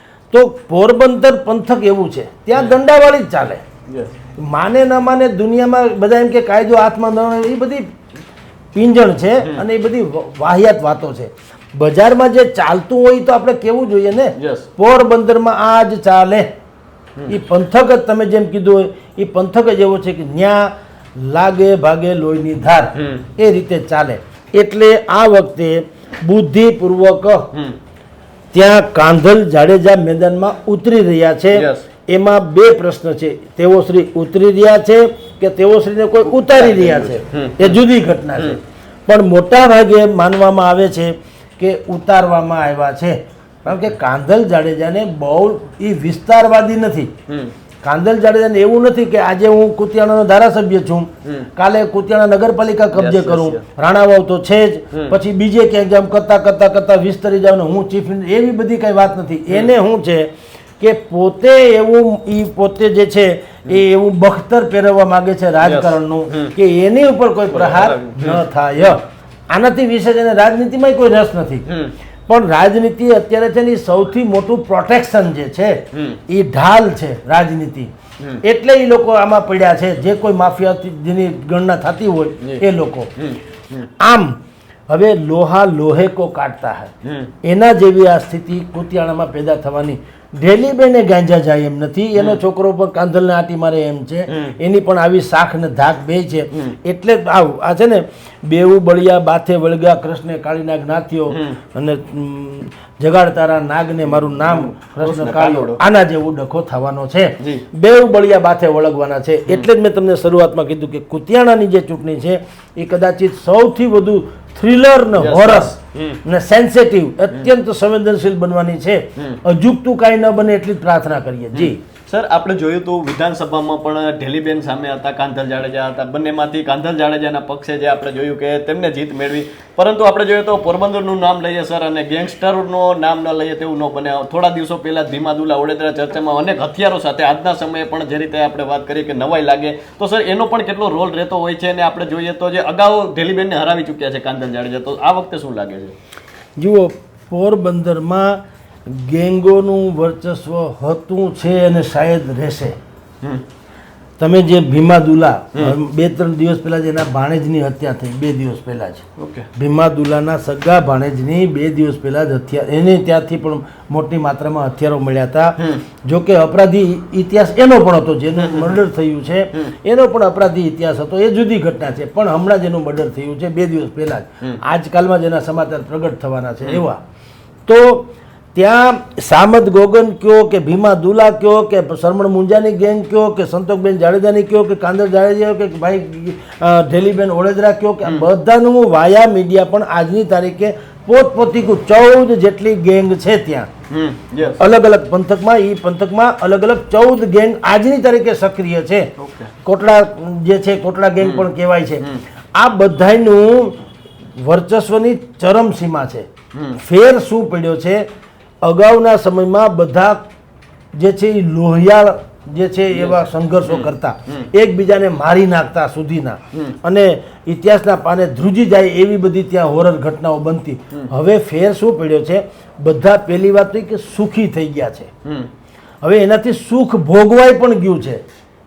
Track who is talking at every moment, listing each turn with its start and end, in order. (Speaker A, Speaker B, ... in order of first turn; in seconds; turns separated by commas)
Speaker A: 0.3-3.6, Speaker B: 3.9-4.1, Speaker A: 4.4-7.8, Speaker A: 8.7-16.5, Speaker B: 14.4-14.7, Speaker A: 17.3-27.5, Speaker B: 22.9-23.2, Speaker A: 28.5-47.1, Speaker B: 31.5-31.8, Speaker B: 36.2-37.8, Speaker B: 47.3-47.5, Speaker A: 47.8-60.3, Speaker B: 52.9-53.6, Speaker B: 54.9-55.2, Speaker A: 60.8-71.7, Speaker B: 65.6-66.5, Speaker B: 67.5-68.4, Speaker B: 71.7-71.9, Speaker A: 72.3-77.9, Speaker B: 75.9-76.2, Speaker A: 78.4-83.1, Speaker B: 83.2-83.9, Speaker A: 83.8-121.8, Speaker B: 87.0-87.3, Speaker B: 92.2-92.4, Speaker B: 94.3-94.5, Speaker B: 101.3-101.6, Speaker B: 104.2-105.8, Speaker B: 107.4-107.7, Speaker B: 115.2-116.2, Speaker B: 121.5-145.9, Speaker A: 146.6-152.8, Speaker A: 154.2-177.0, Speaker B: 159.2-159.5, Speaker B: 168.4-168.8, Speaker A: 177.7-193.7, Speaker B: 193.9-194.7, Speaker A: 194.6-199.1, Speaker B: 199.2-199.5, Speaker A: 199.6-203.8, Speaker B: 201.2-201.5, Speaker A: 204.4-208.1, Speaker B: 206.5-206.8, Speaker A: 208.6-210.2, Speaker A: 211.0-225.1, Speaker B: 212.9-214.4, Speaker B: 225.2-225.5, Speaker A: 226.0-228.2